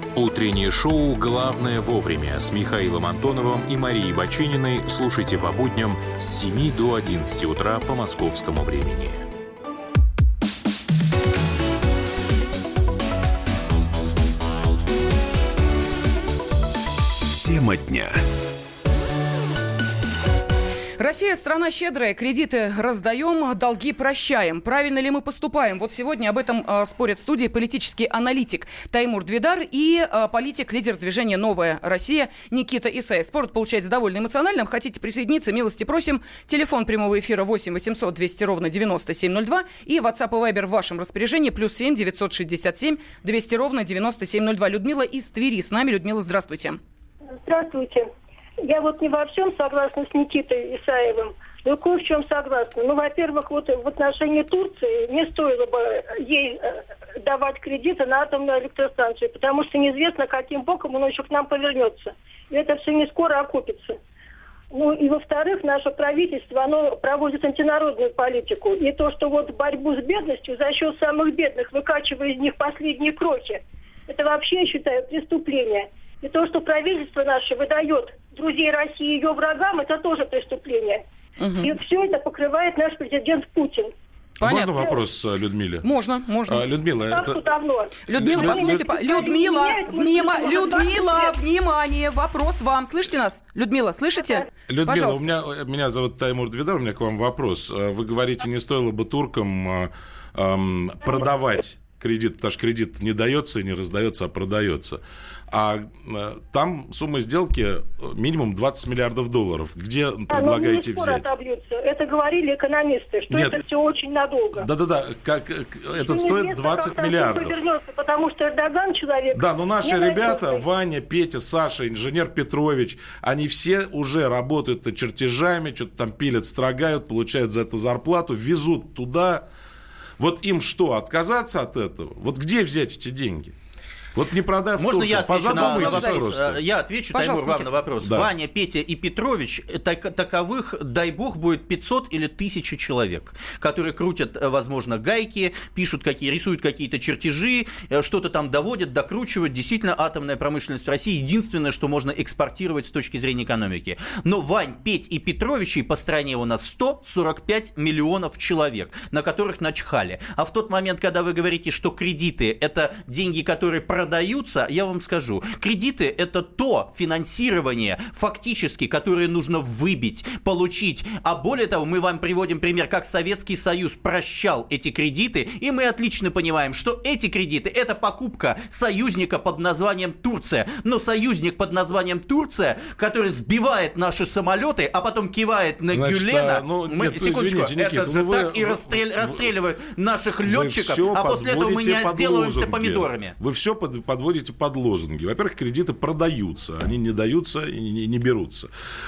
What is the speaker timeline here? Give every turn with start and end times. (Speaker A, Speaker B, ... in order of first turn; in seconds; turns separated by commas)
Speaker A: 0.1-9.1, Speaker B: 0.6-1.4, Speaker B: 7.8-8.2, Speaker B: 17.3-18.2, Speaker C: 21.0-46.8, Speaker D: 47.3-48.1, Speaker D: 48.6-64.0, Speaker D: 64.7-81.0, Speaker C: 81.4-81.7, Speaker D: 81.6-83.9, Speaker C: 84.4-84.9, Speaker E: 84.4-85.8, Speaker C: 85.8-86.6, Speaker E: 86.5-87.3, Speaker D: 87.1-91.3, Speaker C: 88.1-95.3, Speaker E: 88.1-88.8, Speaker E: 94.7-111.3, Speaker D: 110.3-114.7, Speaker E: 113.3-113.6, Speaker E: 114.5-117.6, Speaker D: 116.0-120.6, Speaker E: 119.3-129.4, Speaker E: 130.2-133.5, Speaker E: 134.1-136.6, Speaker F: 134.8-193.3, Speaker C: 135.5-136.3, Speaker C: 137.1-137.7, Speaker E: 138.0-138.3, Speaker E: 185.9-189.5, Speaker E: 190.4-198.7